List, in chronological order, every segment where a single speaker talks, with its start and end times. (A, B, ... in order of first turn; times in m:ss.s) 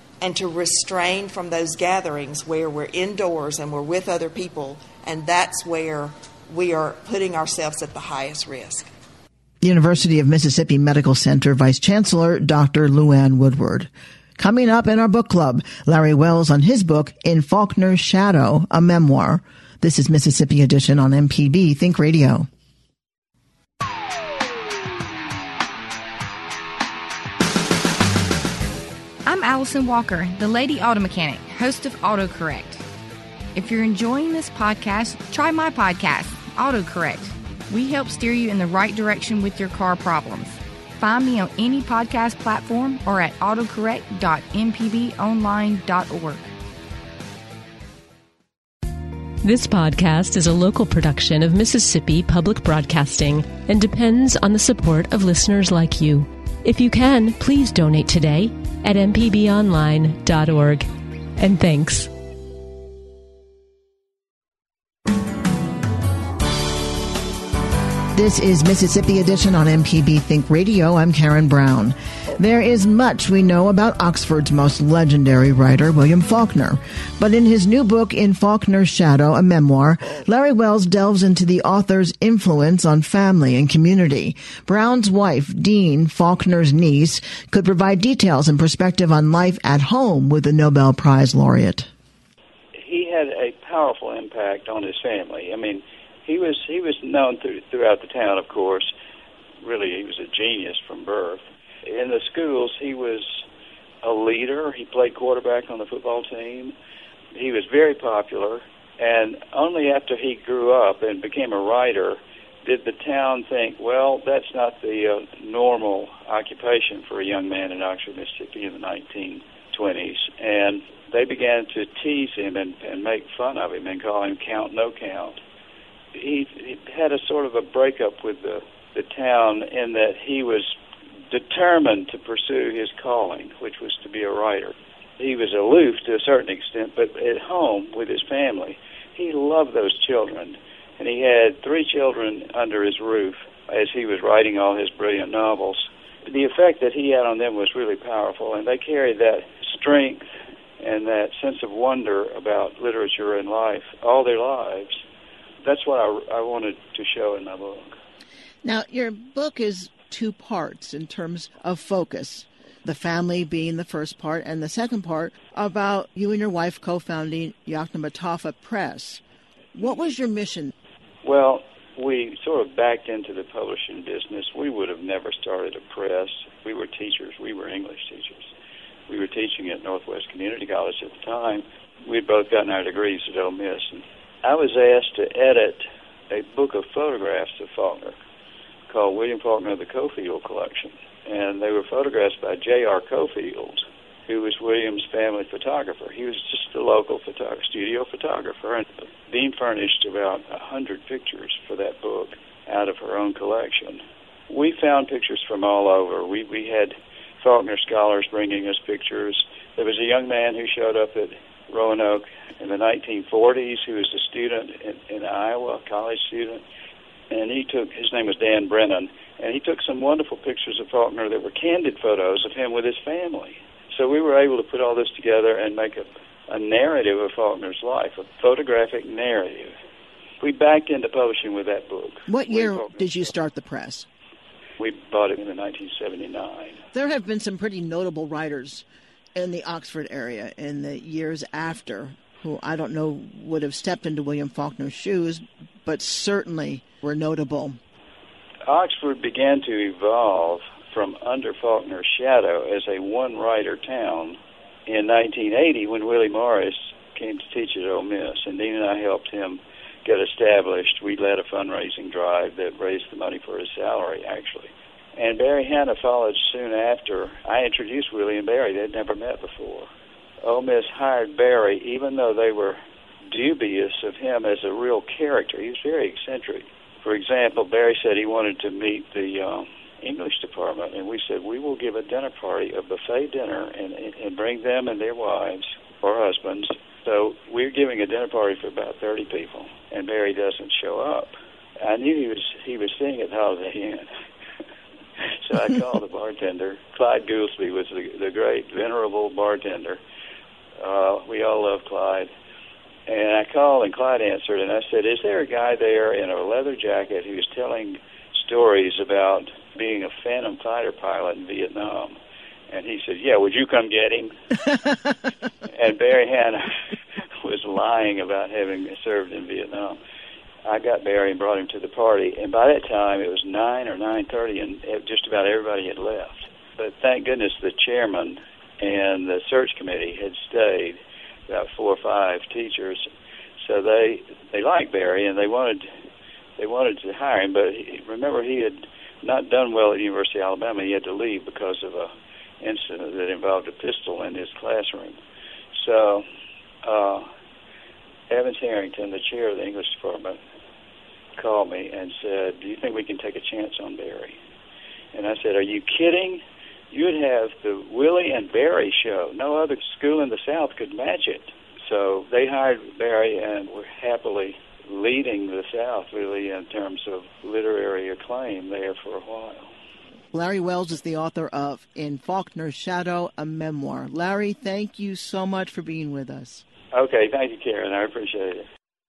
0:00.2-0:08.9 A
0:09.6-0:22.5 B
0:29.2-0:32.8 C
0:33.6-0:46.5 C
0:49.4-1:02.1 D
1:08.1-1:31.9 B
1:32.8-1:38.9 E
1:39.6-1:43.4 E
1:44.0-1:46.8 E
1:47.3-2:05.4 E
2:06.1-2:10.8 E
2:11.3-2:30.3 E
2:30.8-2:35.0 E
2:35.6-2:38.0 E
2:38.6-2:49.2 B
2:49.8-2:50.7 B
2:51.2-2:58.5 E
2:59.1-3:08.2 E
3:08.9-3:36.6 E
3:37.3-3:49.8 E
3:50.4-3:53.2 E
3:52.3-3:54.1 B
3:54.8-3:56.8 E
3:56.9-4:07.8 B
4:08.7-4:29.9 E
4:30.4-4:54.1 E
4:55.5-5:00.0 E
5:00.8-5:02.3 E
5:03.1-5:12.2 E
5:12.7-5:14.3 E
5:15.7-5:16.6 E
5:17.4-5:20.0 E
5:20.7-5:33.1 E
5:33.6-5:35.9 E
5:36.6-5:45.2 E
5:45.7-5:46.3 E
5:46.8-5:47.3 E
5:48.3-5:50.4 E
5:51.4-5:54.4 E
5:55.1-6:09.7 E
6:10.3-6:16.6 B
6:16.9-6:18.7 E